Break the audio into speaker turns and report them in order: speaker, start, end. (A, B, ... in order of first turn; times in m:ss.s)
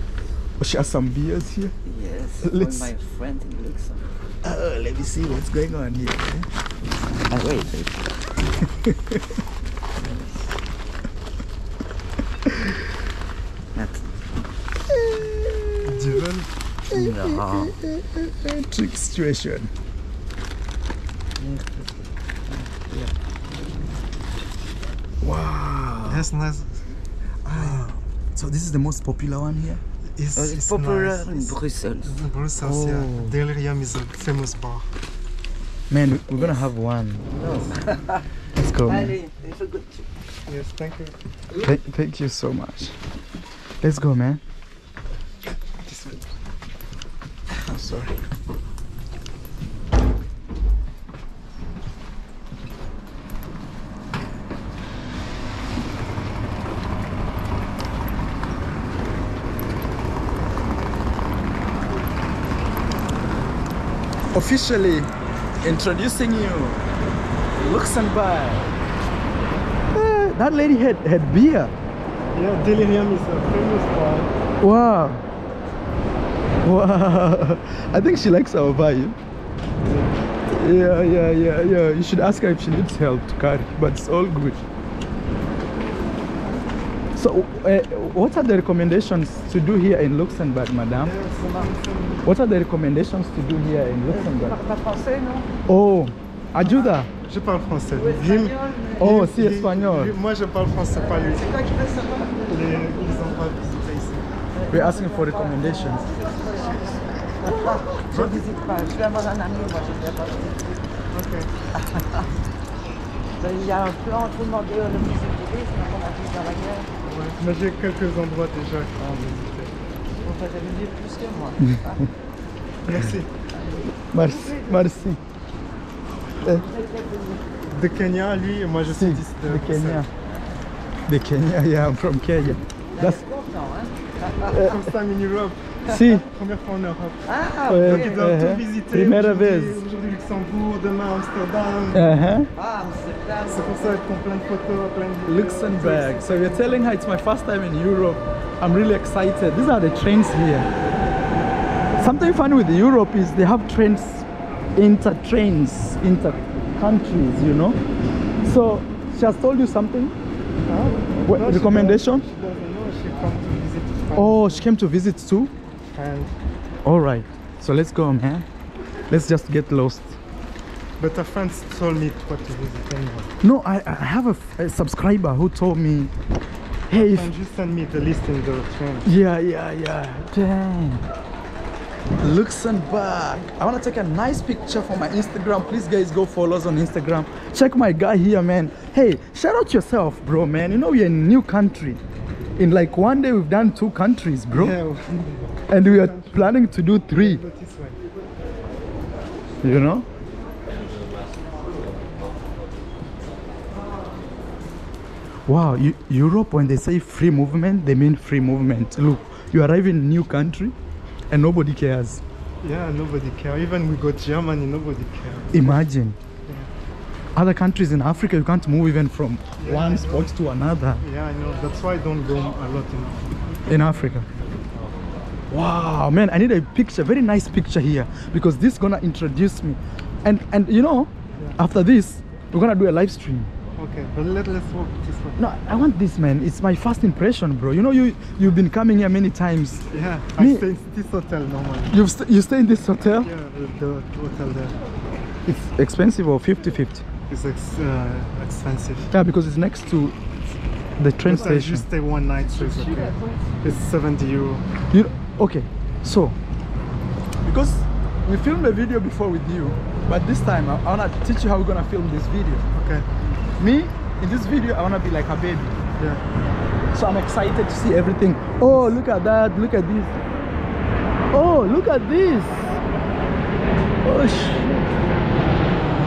0:00.6-0:01.7 A
0:01.8-0:04.0 B
0:02.4-0:02.9 A
0:04.4-0:06.5 A
0:07.3-0:08.1 B
0:08.8-0:09.2 A
0:10.0-0:10.4 B
0:13.7-0:14.1 B
0:14.9-0:15.9 A
0:15.8-0:16.5 C
0:16.9-0:17.8 B
0:16.9-0:19.7 A
0:21.4-0:21.9 B
0:22.5-0:23.1 B
0:25.2-0:26.2 A
0:26.0-0:26.7 C
0:27.4-0:27.9 C
0:27.5-0:29.8 A
0:30.1-0:31.5 C
0:30.3-0:32.2 B
0:32.0-0:34.9 C
0:32.6-0:33.3 A
0:35.9-0:37.3 A
0:37.3-0:37.7 C
0:38.6-0:39.2 A
0:38.8-0:40.0 B
0:40.5-0:41.1 C
0:41.5-0:43.0 A
0:43.8-0:44.4 A
0:45.8-0:46.2 C
0:47.6-0:48.2 A
1:04.3-1:05.1 A
1:05.6-1:06.8 A
1:07.6-1:08.7 A
1:09.9-1:11.7 A
1:12.3-1:14.3 C
1:14.6-1:15.2 A
1:16.6-1:19.2 A
1:19.8-1:20.2 C
1:20.5-1:24.6 A
1:27.2-1:31.1 A
1:31.0-1:32.3 C
1:32.2-1:34.6 A
1:34.1-1:35.6 B
1:35.6-1:37.1 A
1:37.2-1:41.5 C
1:38.0-1:39.0 B
1:39.0-1:40.1 A
1:41.3-1:42.9 B
1:42.5-1:44.3 C
1:44.5-1:50.8 B
1:44.7-1:46.1 A
1:51.1-1:51.5 C
1:51.7-1:52.2 B
1:53.4-1:56.9 B
1:57.0-1:59.7 C
1:59.0-1:59.4 B
2:00.2-2:02.0 B
2:01.6-2:02.1 A
2:02.8-2:03.3 C
2:04.1-2:05.2 A
2:04.1-2:05.0 B
2:06.4-2:07.5 B
2:07.6-2:10.1 C
2:08.9-2:10.1 A
2:11.1-2:13.2 A
2:12.9-2:14.6 B
2:14.5-2:14.8 A
2:14.5-2:22.1 C
2:15.9-2:16.2 A
2:17.2-2:18.3 B
2:17.7-2:19.8 A
2:21.9-2:22.5 A
2:22.6-2:23.7 B
2:23.5-2:26.7 C
2:25.2-2:30.7 A
2:32.0-2:37.8 A
2:38.4-2:40.1 A
2:40.6-2:44.6 C
2:41.2-2:42.2 A
2:44.1-2:45.5 A
2:45.9-2:46.3 C
2:46.8-2:48.4 A
2:49.1-2:50.2 A
2:51.0-2:53.3 C
2:53.4-2:56.1 A
2:56.9-2:57.3 A
2:56.9-2:59.1 C
2:59.0-3:01.0 A
3:02.2-3:12.0 A
3:12.6-3:14.8 A
3:14.5-3:18.0 C
3:15.7-3:17.4 A
3:19.6-3:20.0 A
3:25.5-3:30.7 A
3:31.3-3:32.2 A
3:32.6-3:35.8 C
3:35.5-3:36.2 A
3:37.3-3:41.0 A
3:39.6-3:40.3 C
3:41.0-3:43.3 C
3:43.7-3:44.3 A
3:45.5-3:53.5 A
3:53.8-3:55.4 C
3:55.4-3:59.8 A
3:59.9-4:02.0 C
4:00.4-4:00.6 A
4:01.9-4:03.3 A
4:03.2-4:04.8 C
4:05.4-4:07.0 A
4:07.3-4:09.1 C
4:09.1-4:10.2 A
4:11.0-4:11.8 A
4:11.2-4:14.6 C
4:12.5-4:13.6 B
4:14.9-4:16.4 A
4:17.4-4:22.7 A
4:22.7-4:23.1 C
4:23.6-4:25.7 A
4:26.0-4:26.2 C
4:26.9-4:30.1 A
4:28.6-4:28.9 C
4:31.3-4:32.7 A
4:34.0-4:34.9 A